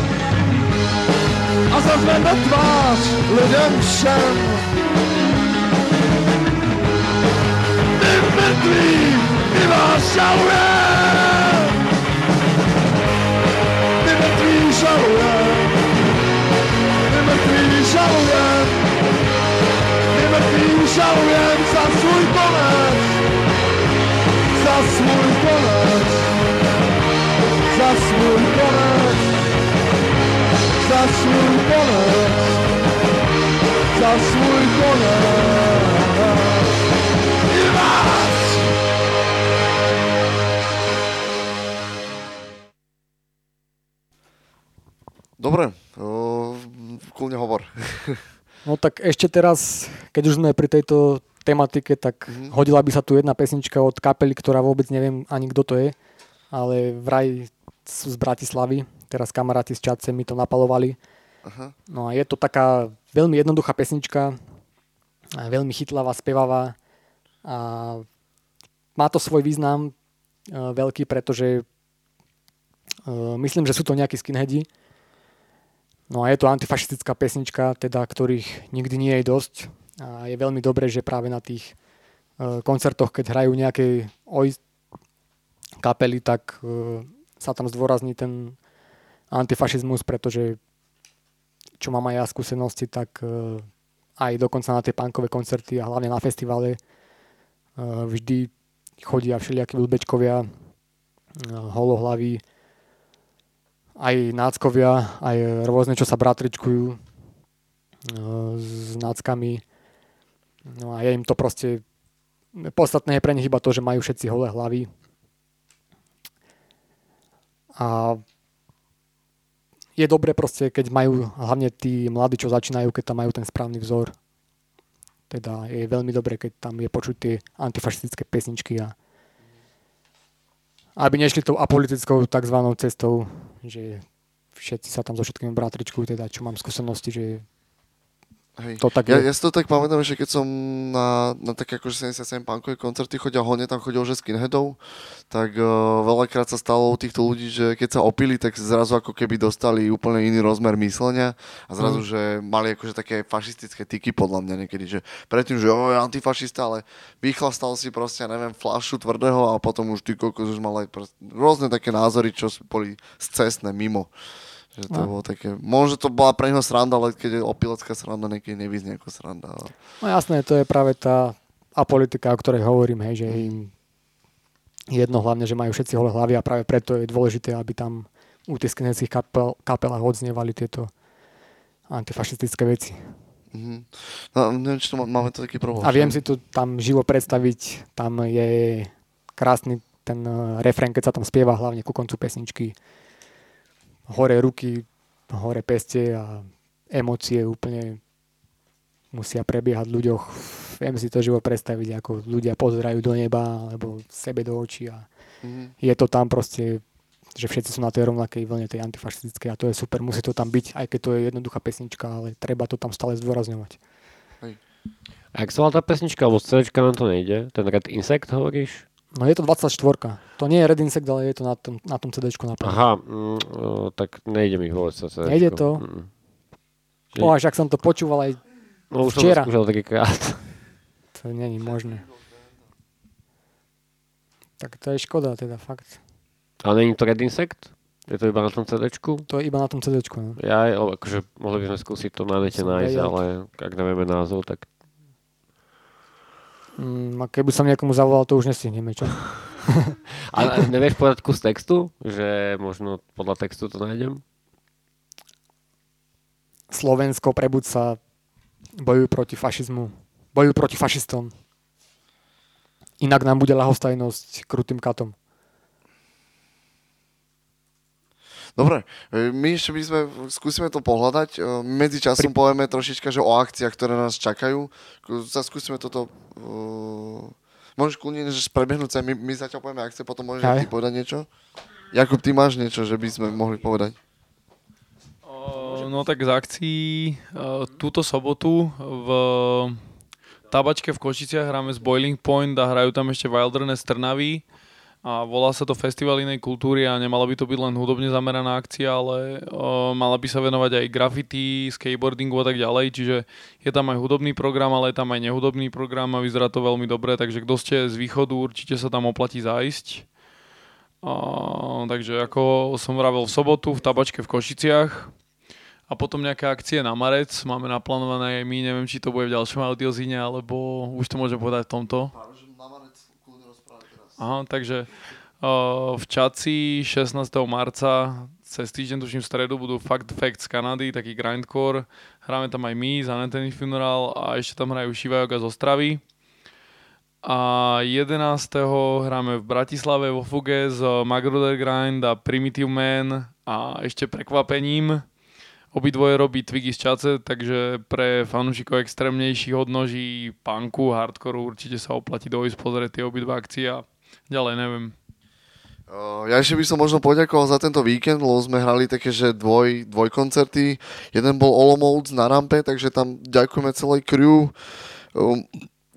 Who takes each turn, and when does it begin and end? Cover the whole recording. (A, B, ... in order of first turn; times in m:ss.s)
0:01.7-0:04.7 A
0:08.0-0:11.7 A
0:14.0-0:15.8 A
0:17.1-0:18.9 A
0:20.1-0:23.2 A
0:24.6-0:26.3 A
0:27.7-0:29.4 A
0:30.8-0:32.6 A
0:34.0-0:36.7 A
0:37.5-0:38.5 A
0:45.4-0:48.2 B
0:48.6-0:56.0 C
0:52.3-0:52.6 B
0:56.5-1:01.0 C
1:01.4-1:01.7 B
1:01.9-1:04.4 C
1:05.4-1:06.8 C
1:07.4-1:08.0 C
1:09.0-1:09.9 C
1:10.5-1:11.6 C
1:13.1-1:14.7 C
1:16.1-1:21.8 C
1:22.4-1:24.6 C
1:25.8-1:28.6 C
1:29.3-1:30.6 C
1:31.8-1:33.7 C
1:34.2-1:36.8 C
1:37.8-1:40.5 C
1:41.4-1:42.4 C
1:44.0-1:47.0 C
1:48.1-1:49.6 C
1:50.7-1:51.8 C
1:52.6-1:54.9 C
1:57.8-1:58.2 C
2:00.0-2:04.1 C
2:05.3-2:09.0 C
2:11.0-2:14.0 C
2:14.6-2:17.4 C
2:18.6-2:24.8 B
2:18.8-2:19.3 C
2:25.3-2:44.1 B
2:44.8-2:49.7 B
2:50.0-2:53.7 C
2:53.3-2:53.6 B
2:54.9-3:00.9 C
3:01.9-3:03.0 C
3:03.5-3:06.2 B
3:05.8-3:12.8 C
3:14.1-3:18.0 C
3:19.1-3:25.1 C
3:25.4-3:25.7 B
3:25.8-3:26.8 C
3:27.4-3:33.8 C
3:35.3-3:38.9 D
3:39.2-3:42.8 C
3:42.6-3:46.1 D
3:45.2-3:45.8 C
3:47.2-3:48.4 C
3:48.9-3:50.5 D
3:49.0-3:49.5 C
3:51.2-3:52.1 C
3:54.6-3:56.0 C
3:56.6-3:59.3 D
3:59.3-4:00.4 C
4:00.4-4:04.7 D
4:02.5-4:03.2 C
4:06.8-4:10.0 C
4:10.3-4:14.2 D
4:16.7-4:18.0 C
4:18.8-4:21.3 C
4:23.0-4:25.2 C
4:28.6-4:41.3 B
4:40.4-4:40.7 C
4:41.9-4:44.0 B
4:45.3-4:49.8 E
4:50.5-4:54.4 E
4:55.0-5:10.1 E
5:11.0-5:15.1 E
5:15.9-5:22.1 E
5:22.1-5:24.2 B
5:24.2-5:24.9 E
5:25.4-5:36.0 E
5:37.2-5:45.1 E
5:45.7-5:54.9 E
5:55.9-6:04.6 B
6:05.1-6:05.6 B